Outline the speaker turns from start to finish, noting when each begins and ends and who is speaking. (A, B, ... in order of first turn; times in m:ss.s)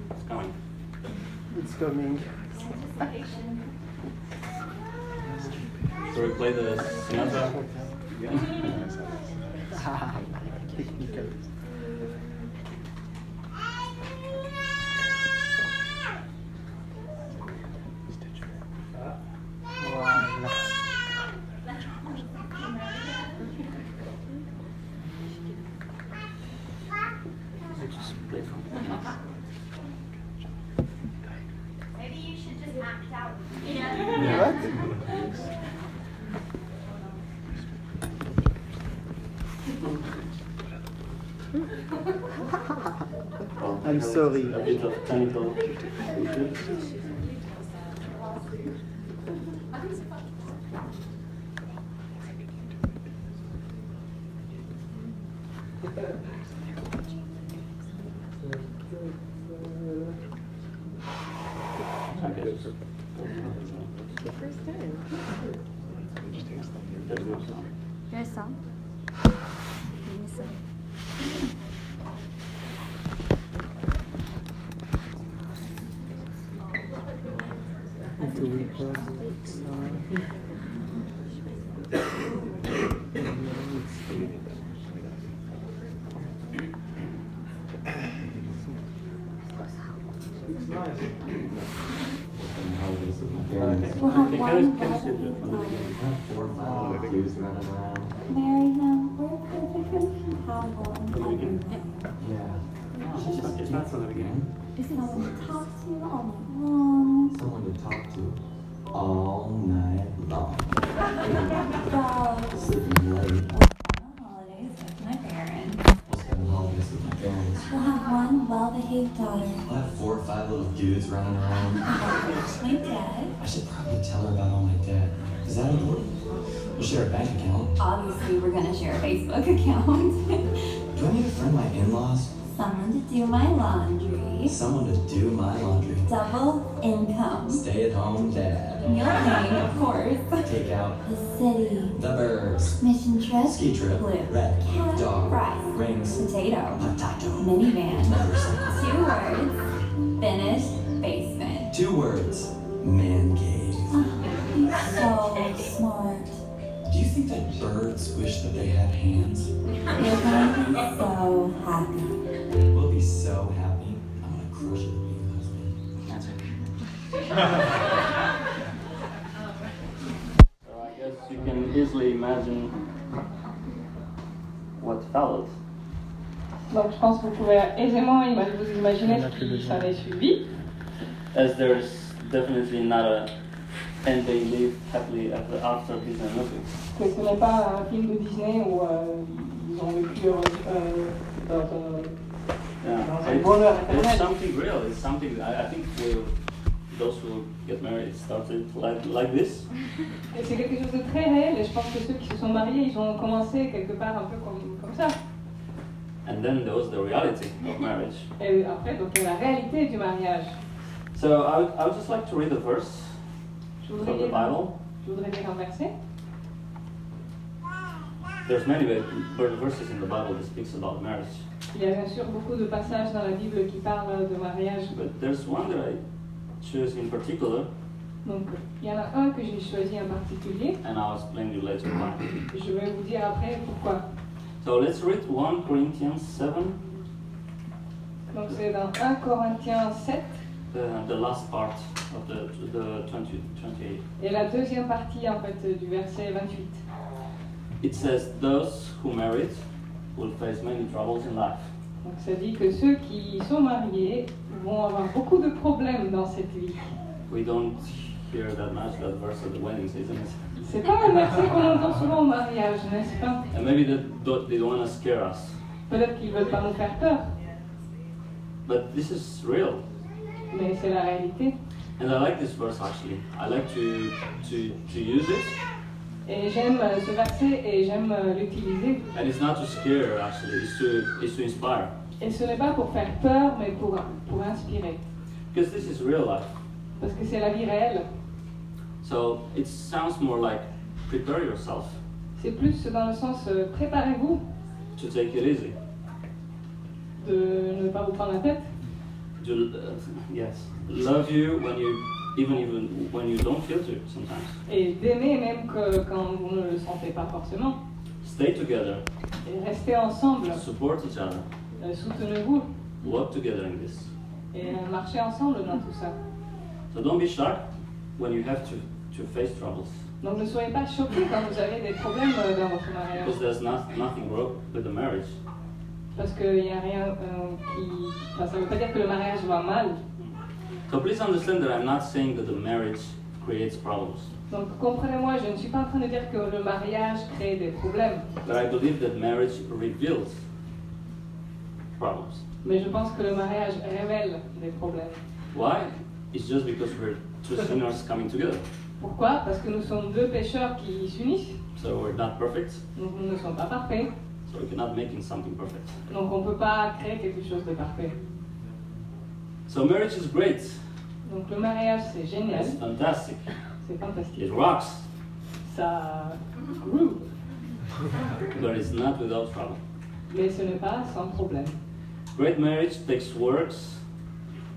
0:00.2-0:00.5 A
0:01.5-0:02.3 B
0:06.1-0:07.5 A
0:07.4-0:07.9 B
0:09.7-0:11.3 B
0:19.8-0:20.6 B
0:27.8-0:29.0 A
0:34.2-0:34.7 B
0:43.6-0:46.7 A
0:43.8-0:44.7 B
1:02.1-1:03.9 A
1:06.4-1:07.7 A
1:08.1-1:08.5 C
1:10.0-1:10.5 C
1:18.2-1:20.1 B
1:23.3-1:24.4 B
1:32.4-1:34.0 D
1:33.6-1:35.9 A
1:33.9-1:36.0 C
1:35.7-1:38.1 D
1:38.3-1:42.1 C
1:41.1-1:41.6 A
1:42.2-1:44.5 D
1:43.0-1:44.2 A
1:44.8-1:47.3 C
1:47.3-1:48.4 D
1:48.9-1:51.8 D
1:51.7-1:52.5 C
1:52.5-1:53.5 D
1:53.5-1:55.8 C
1:56.0-1:57.7 D
1:57.7-1:59.6 C
1:59.7-2:01.9 D
2:01.9-2:03.3 C
2:03.4-2:06.2 D
2:06.7-2:07.7 D
2:07.8-2:10.6 C
2:10.9-2:12.3 D
2:12.5-2:14.6 C
2:14.4-2:16.1 D
2:16.1-2:17.6 C
2:17.4-2:18.9 D
2:18.8-2:20.5 C
2:20.4-2:21.0 D
2:21.0-2:22.0 C
2:21.9-2:22.8 D
2:22.8-2:28.2 C
2:23.4-2:26.2 D
2:26.8-2:28.9 D
2:28.7-2:29.6 C
2:30.2-2:31.7 C
2:31.7-2:34.0 D
2:33.9-2:36.4 C
2:36.9-2:39.5 D
2:39.9-2:42.2 C
2:42.7-2:45.8 D
2:46.1-2:46.4 A
2:50.6-2:52.8 A
2:54.8-2:55.5 A
2:56.7-3:00.5 E
2:59.0-3:00.0 B
3:01.3-3:03.3 A
3:04.0-3:06.7 A
3:06.9-3:12.1 E
3:12.8-3:16.3 A
3:13.0-3:14.2 E
3:16.9-3:19.7 A
3:20.3-3:25.2 E
3:26.2-3:28.3 A
3:28.4-3:30.6 E
3:31.1-3:33.1 A
3:33.8-3:35.9 E
3:34.0-3:34.7 A
3:38.4-3:41.4 A
3:41.7-3:44.9 E
3:44.9-3:46.0 A
3:46.6-3:47.7 A
3:48.2-3:50.8 E
3:50.8-3:52.4 A
3:52.5-3:54.0 E
3:54.6-3:56.8 A
3:58.3-4:00.4 E
4:00.7-4:04.0 A
4:04.2-4:06.8 E
4:07.8-4:09.6 A
4:10.1-4:11.7 A
4:12.0-4:16.9 E
4:17.3-4:20.5 A
4:20.6-4:23.4 E
4:23.5-4:25.6 A
4:25.9-4:27.3 E
4:28.6-4:29.8 A
4:30.5-4:31.5 E
4:32.0-4:35.6 A
4:36.2-4:39.0 E
4:39.1-4:41.9 A
4:42.2-4:45.0 E
4:45.5-4:46.5 A
4:47.0-4:48.0 E
4:49.0-4:52.0 A
4:52.4-4:54.4 E
4:55.0-4:55.7 A
4:57.2-4:58.7 E
4:59.4-5:04.6 A
5:04.7-5:07.8 E
5:08.2-5:09.0 A
5:09.4-5:10.6 E
5:10.5-5:11.4 A
5:11.8-5:12.7 E
5:13.0-5:14.1 A
5:14.5-5:16.2 E
5:16.9-5:17.6 A
5:18.2-5:20.0 A
5:20.2-5:23.3 E
5:23.2-5:25.4 A
5:26.1-5:30.0 E
5:30.9-5:34.3 A
5:34.5-5:38.3 E
5:38.4-5:40.4 A
5:42.0-5:42.4 A
5:42.6-5:45.2 E
5:45.5-5:48.6 A
5:49.0-5:51.6 E
5:51.8-5:52.8 A
5:52.9-5:54.1 E
5:54.5-5:56.0 A
5:56.1-5:58.2 E
5:59.7-6:00.8 A
6:01.2-6:02.8 E
6:02.5-6:03.5 A
6:03.8-6:04.4 E
6:04.4-6:05.0 A
6:05.6-6:07.2 E
6:08.5-6:09.8 A
6:10.3-6:11.8 E
6:12.3-6:14.0 A